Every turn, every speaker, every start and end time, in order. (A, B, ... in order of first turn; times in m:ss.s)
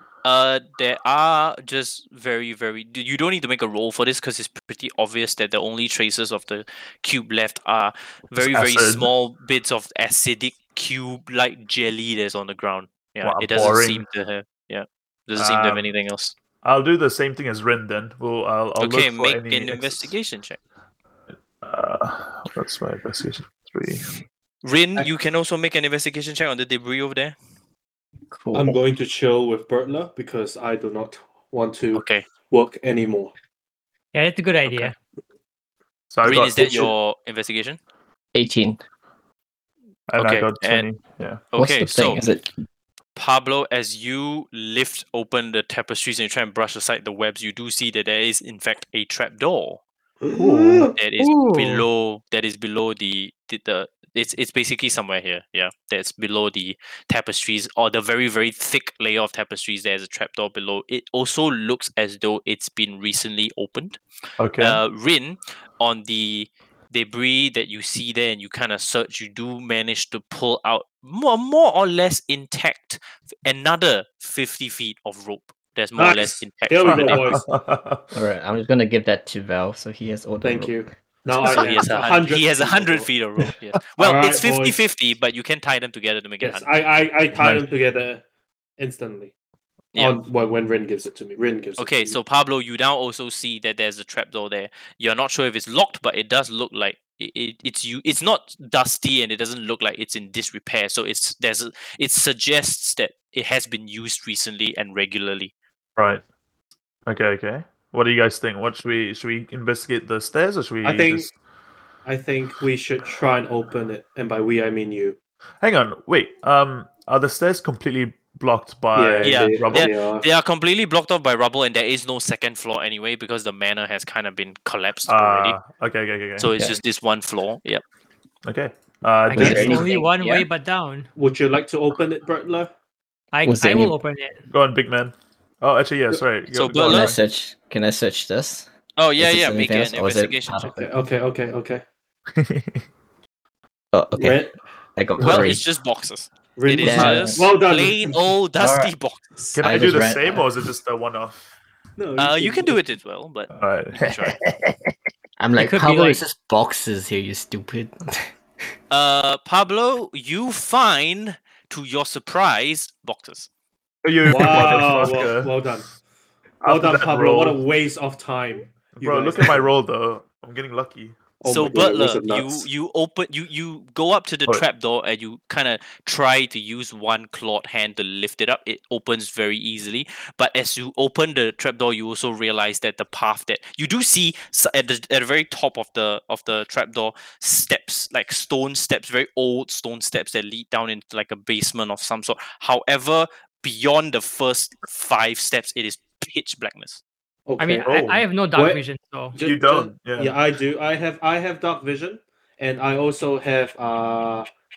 0:00.2-0:16.3 A
0:08.4-0:09.1 B
0:13.2-0:14.0 B
0:15.4-0:15.9 B
0:16.6-0:20.1 B
0:18.8-0:20.6 A
0:21.6-0:24.1 B
0:24.6-0:27.4 A
0:28.3-0:28.8 C
0:28.5-0:33.3 D
0:31.9-0:32.2 A
0:34.1-0:34.9 E
0:34.7-0:34.9 B
0:36.1-0:36.9 B
0:36.2-0:37.8 A
0:38.3-0:38.8 C
0:40.1-0:41.5 B
0:40.2-0:40.9 A
0:41.5-0:42.2 A
0:41.6-0:42.5 C
0:43.2-0:49.8 A
0:50.2-0:50.9 D
0:50.3-0:50.9 B
0:50.9-1:04.0 A
0:51.2-0:51.8 E
1:04.4-1:04.8 B
1:04.6-1:17.4 A
1:16.0-1:17.4 D
1:16.8-1:18.1 B
1:18.1-1:20.8 C
1:20.4-1:23.1 D
1:21.4-1:21.7 B
1:21.4-1:26.6 A
1:24.0-1:24.8 D
1:26.4-1:28.2 D
1:27.3-1:27.6 B
1:28.8-1:29.3 D
1:29.9-1:30.2 A
1:30.0-1:32.2 D
1:31.8-1:45.5 A
1:46.0-1:46.2 B
1:47.0-1:51.3 B
1:50.8-1:51.3 D
1:52.0-1:55.2 D
1:55.6-1:59.9 B
1:58.9-2:00.2 D
1:59.2-2:05.6 A
2:05.1-2:06.7 B
2:06.4-2:07.8 A
2:08.4-2:09.8 B
2:09.3-2:11.1 E
2:09.3-2:10.4 C
2:09.4-2:09.7 D
2:09.4-2:09.7 A
2:11.2-2:12.7 D
2:13.3-2:14.4 E
2:13.4-2:13.9 C
2:14.5-2:17.2 B
2:16.5-2:17.1 A
2:16.8-2:20.9 C
2:19.0-2:20.8 A
2:20.8-2:21.8 D
2:22.3-2:22.8 B
2:23.9-2:25.6 C
2:24.2-2:24.5 D
2:25.2-2:25.5 D
2:25.2-2:29.6 A
2:26.6-2:28.2 D
2:26.8-2:27.5 C
2:28.6-2:28.9 C
2:29.6-2:31.4 B
2:29.6-2:30.5 C
2:32.0-2:32.8 D
2:32.2-2:34.4 A
2:33.5-2:34.7 B
2:35.4-2:38.3 C
2:35.6-2:36.2 E
2:38.9-2:43.5 A
2:44.0-2:45.6 B
2:44.3-2:45.9 D
2:44.7-2:45.0 A
2:46.6-2:47.6 B
2:46.6-2:49.7 D
2:48.9-2:51.2 B
2:51.4-2:52.7 D
2:51.4-3:17.0 A
3:17.4-3:18.0 D
3:17.6-3:19.4 E
3:17.8-3:18.2 B
3:18.5-3:18.8 D
3:19.3-3:24.5 D
3:19.4-3:20.4 B